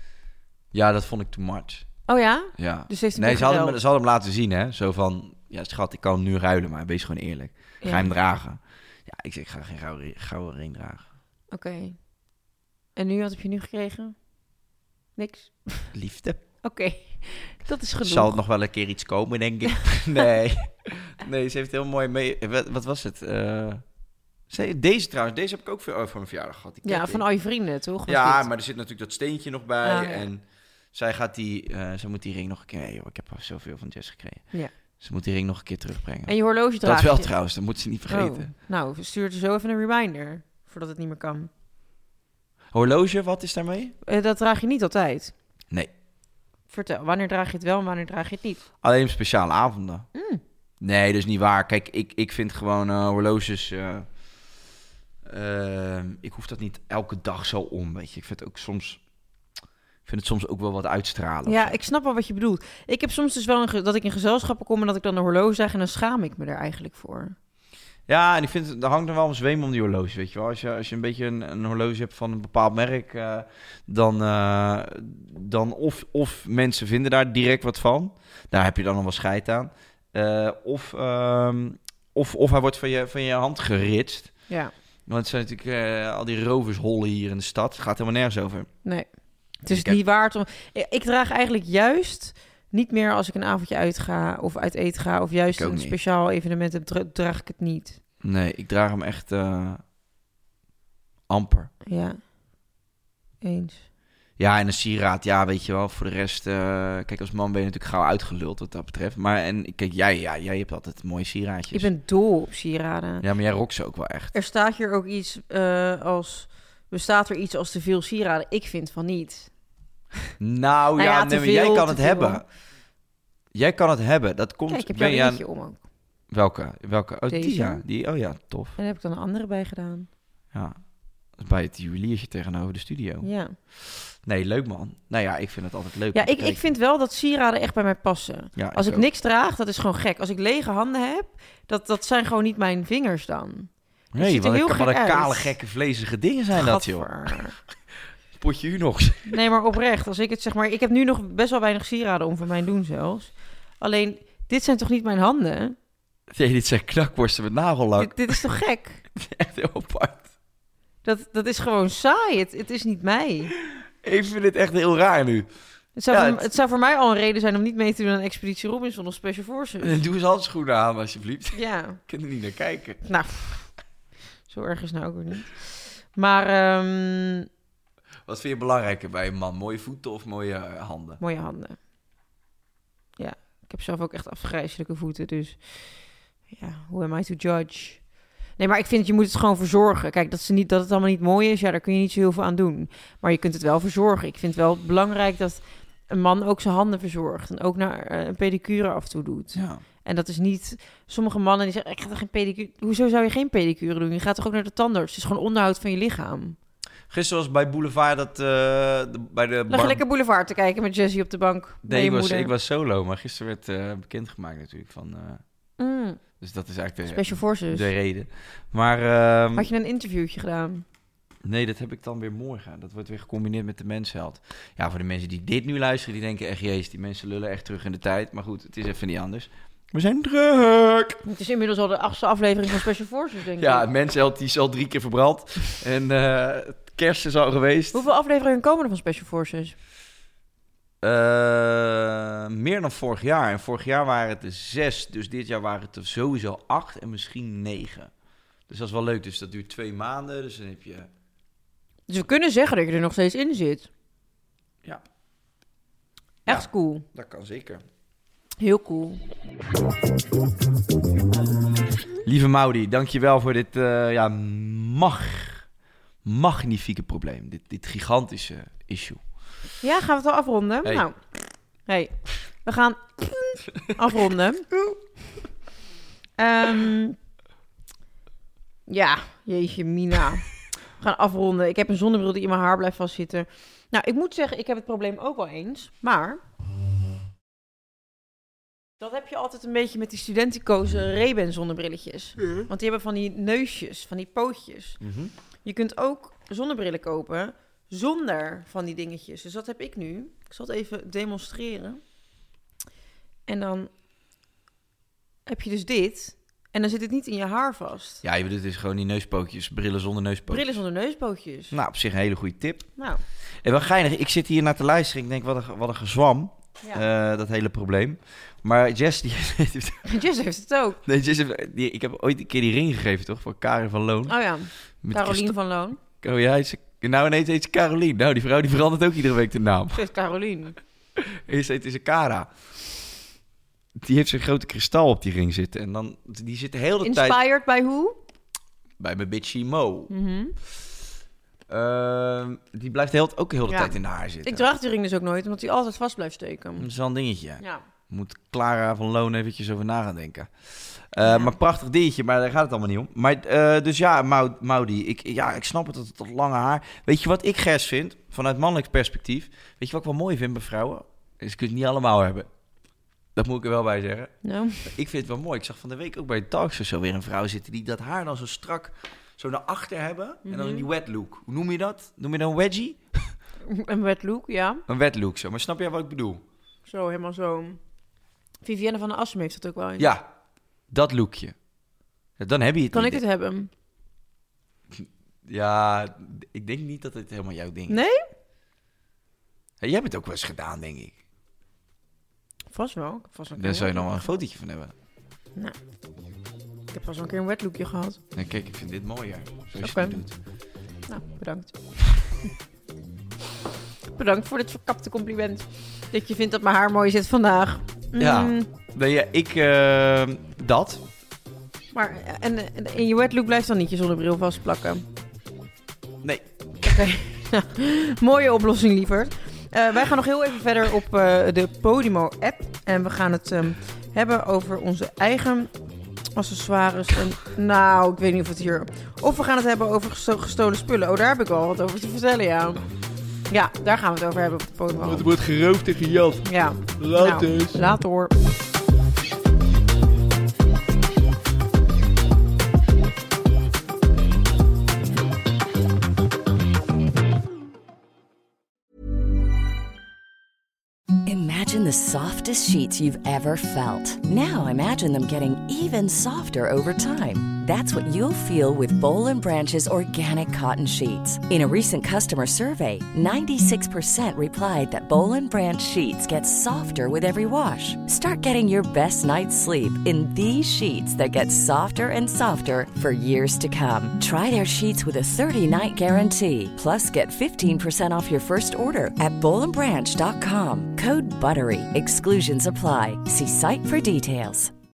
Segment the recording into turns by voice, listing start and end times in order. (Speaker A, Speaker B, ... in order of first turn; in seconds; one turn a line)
Speaker A: 0.7-1.9
Speaker B: 2.1-3.8
Speaker A: 2.5-11.1
Speaker B: 7.8-8.1
Speaker B: 11.5-12.0
Speaker B: 12.9-14.2
Speaker B: 15.2-15.9
Speaker A: 15.9-16.4
Speaker B: 16.6-18.4
Speaker A: 18.0-23.8
Speaker A: 24.5-27.2
Speaker B: 26.8-28.5
Speaker A: 28.1-38.5
Speaker B: 29.8-30.2
Speaker B: 36.2-37.3
Speaker B: 38.1-41.5
Speaker A: 42.7-43.9
Speaker B: 44.0-45.3
Speaker B: 46.7-48.6
Speaker A: 48.8-50.1
Speaker B: 50.1-50.4
Speaker A: 50.8-54.1
Speaker A: 55.2-59.0
Speaker A: 60.0-61.8
Speaker B: 61.5-67.3
Speaker A: 68.1-84.4
Speaker A: 85.1-88.7
Speaker B: 88.8-98.0
Speaker A: 89.7-90.0
Speaker A: 95.5-96.0
Speaker A: 98.2-99.8
Speaker A: 101.3-101.7
Speaker B: 101.8-102.2
Speaker B: 103.4-103.8
Speaker A: 104.4-111.9
Speaker B: 111.7-113.2
Speaker A: 113.2-114.3
Speaker B: 114.3-119.5
Speaker A: 120.4-122.5
Speaker B: 121.0-122.4
Speaker A: 123.5-125.4
Speaker B: 124.7-125.8
Speaker A: 126.3-128.8
Speaker B: 127.3-127.8
Speaker B: 128.8-130.1
Speaker A: 130.5-130.8
Speaker A: 131.4-136.6
Speaker B: 133.2-133.6
Speaker B: 136.1-145.5
Speaker A: 138.6-139.1
Speaker A: 144.1-147.5
Speaker B: 146.5-147.6
Speaker A: 148.4-149.4
Speaker B: 149.3-155.8
Speaker A: 156.3-158.4
Speaker B: 158.0-159.0
Speaker A: 159.1-160.2
Speaker B: 161.0-163.5
Speaker A: 164.0-165.5
Speaker B: 165.9-170.0
Speaker A: 166.1-166.5
Speaker A: 169.8-173.0
Speaker B: 171.5-172.0
Speaker B: 173.0-173.7
Speaker B: 174.5-177.5
Speaker A: 178.2-181.2
Speaker B: 181.2-181.8
Speaker B: 183.2-206.6
Speaker A: 199.5-199.8
Speaker A: 207.1-210.0
Speaker B: 209.7-212.5
Speaker A: 211.8-215.4
Speaker B: 215.8-216.2
Speaker A: 216.4-219.7
Speaker B: 217.0-217.9
Speaker B: 219.5-220.8
Speaker A: 221.4-231.2
Speaker B: 231.2-233.8
Speaker A: 233.6-238.0
Speaker B: 237.9-239.8
Speaker A: 241.0-248.1
Speaker A: 248.7-251.1
Speaker B: 252.1-253.9
Speaker B: 256.4-257.0
Speaker A: 256.5-257.8
Speaker B: 258.6-259.2
Speaker A: 262.2-265.6
Speaker A: 266.2-269.2
Speaker B: 269.8-271.1
Speaker B: 271.9-274.6
Speaker B: 276.4-277.2
Speaker B: 278.9-280.5
Speaker B: 281.0-286.4
Speaker B: 289.0-295.0
Speaker A: 295.0-295.3
Speaker B: 295.6-302.0
Speaker B: 303.5-303.9
Speaker B: 305.4-308.2
Speaker A: 308.2-310.7
Speaker B: 310.5-311.7
Speaker A: 311.7-312.9
Speaker A: 313.6-320.2
Speaker B: 320.1-321.0
Speaker A: 321.0-324.4
Speaker B: 324.3-326.0
Speaker A: 325.0-330.0
Speaker B: 329.9-330.8
Speaker A: 331.2-332.5
Speaker A: 334.0-337.4
Speaker B: 337.0-338.2
Speaker A: 339.0-340.1
Speaker B: 340.1-340.5
Speaker A: 341.7-344.7
Speaker B: 343.7-343.9
Speaker B: 344.4-346.9
Speaker A: 346.8-362.5
Speaker B: 351.2-351.5
Speaker A: 363.4-373.3
Speaker B: 364.4-364.9
Speaker B: 370.4-370.9
Speaker B: 373.6-374.8
Speaker A: 374.9-376.4
Speaker B: 376.9-377.8
Speaker B: 378.6-380.1
Speaker A: 380.0-380.3
Speaker A: 380.9-381.6
Speaker A: 382.4-383.2
Speaker B: 382.9-383.7
Speaker A: 384.9-388.0
Speaker B: 387.9-388.2
Speaker A: 389.8-391.2
Speaker B: 392.7-394.4
Speaker A: 393.6-394.9
Speaker B: 396.9-398.2
Speaker A: 398.3-400.3
Speaker B: 399.8-400.2
Speaker B: 401.1-401.7
Speaker B: 404.1-408.7
Speaker A: 408.2-411.0
Speaker B: 411.9-415.1
Speaker A: 416.2-417.1
Speaker B: 416.9-425.7
Speaker B: 426.3-432.8
Speaker B: 433.5-435.3
Speaker A: 435.0-437.8
Speaker B: 436.4-438.3
Speaker C: 451.2-484.7